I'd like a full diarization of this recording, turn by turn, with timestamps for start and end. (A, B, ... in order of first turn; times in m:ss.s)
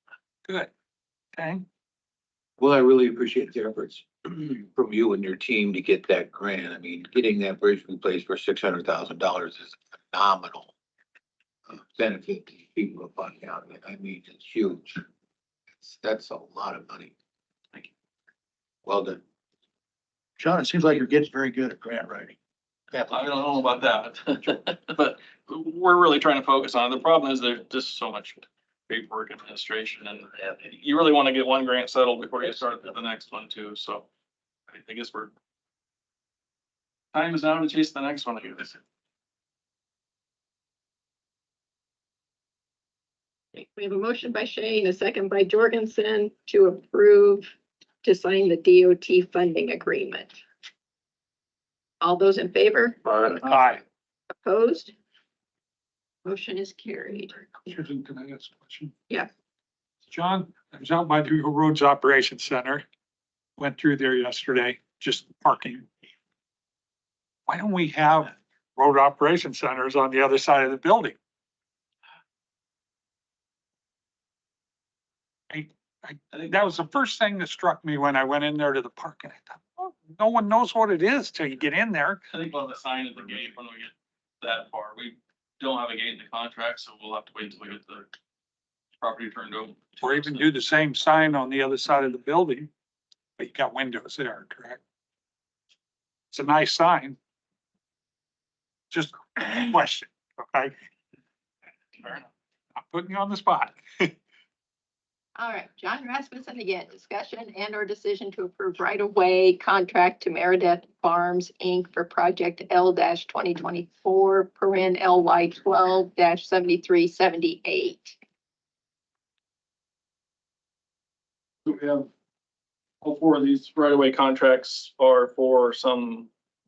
0:01.4-0:01.6 A
0:02.6-0:10.7 B
0:11.7-0:15.0 B
0:15.8-0:17.1 B
0:18.8-0:19.2 B
0:20.4-0:22.4 C
0:22.9-0:23.2 C
0:23.1-0:34.1 D
0:34.7-0:35.3 D
0:37.1-0:38.8 D
0:43.5-0:47.5 E
0:48.0-0:50.4 E
0:52.0-0:53.0 E
0:53.4-0:53.8 A
0:54.4-0:54.9 E
0:56.2-0:57.5 E
0:57.7-0:58.9 A
1:00.1-1:02.8 A
1:03.6-1:05.9 A
1:07.5-1:11.2 A
1:15.5-1:22.2 A
1:16.3-1:16.8 D
1:22.3-1:28.1 D
1:29.0-1:30.4 D
1:30.0-1:32.7 A
1:33.4-1:34.8 A
1:36.3-1:37.2 A
1:38.9-1:40.7 A
1:42.9-1:44.1 A
1:45.4-1:58.2 E
2:01.6-2:02.1 D
2:03.0-2:06.3 D